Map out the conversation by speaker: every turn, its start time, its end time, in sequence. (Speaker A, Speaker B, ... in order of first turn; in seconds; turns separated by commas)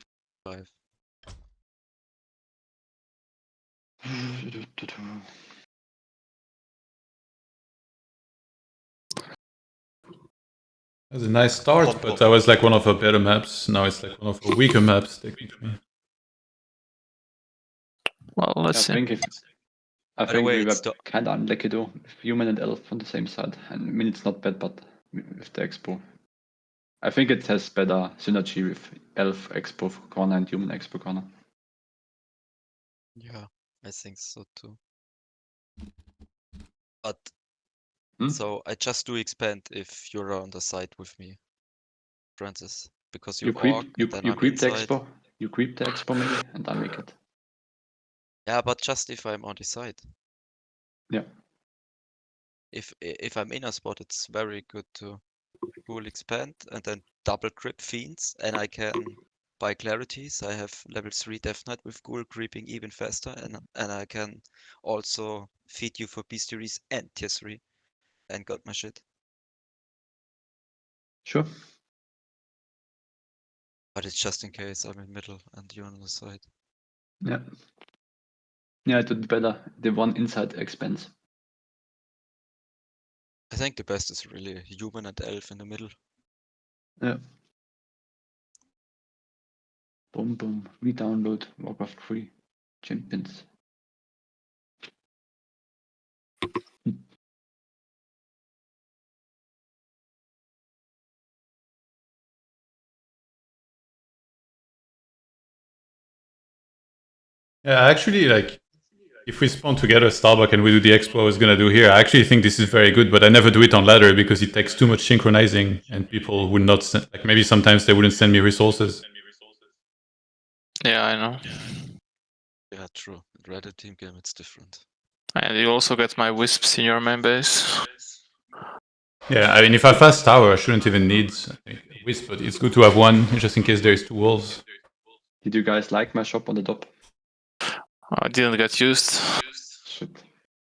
Speaker A: 4.0-5.2, Speaker B: 11.1-15.8, Speaker C: 18.4-19.0, Speaker A: 18.7-19.4, Speaker A: 20.2-26.0, Speaker D: 20.3-20.9, Speaker A: 27.0-31.3, Speaker D: 33.2-34.8, Speaker D: 37.0-37.3, Speaker D: 38.3-41.4, Speaker D: 42.4-45.0, Speaker A: 43.4-47.1, Speaker D: 48.5-50.1, Speaker D: 52.7-55.3, Speaker D: 55.8-67.6, Speaker D: 68.3-69.0, Speaker D: 73.9-76.5, Speaker A: 78.8-81.1, Speaker D: 83.5-85.9, Speaker A: 90.1-92.3, Speaker A: 92.8-93.4, Speaker B: 107.6-108.6, Speaker B: 109.2-119.0, Speaker C: 120.8-121.8, Speaker D: 122.7-124.8, Speaker C: 125.3-127.9, Speaker B: 129.3-134.6, Speaker A: 135.4-136.9, Speaker C: 138.1-139.2, Speaker A: 139.8-140.2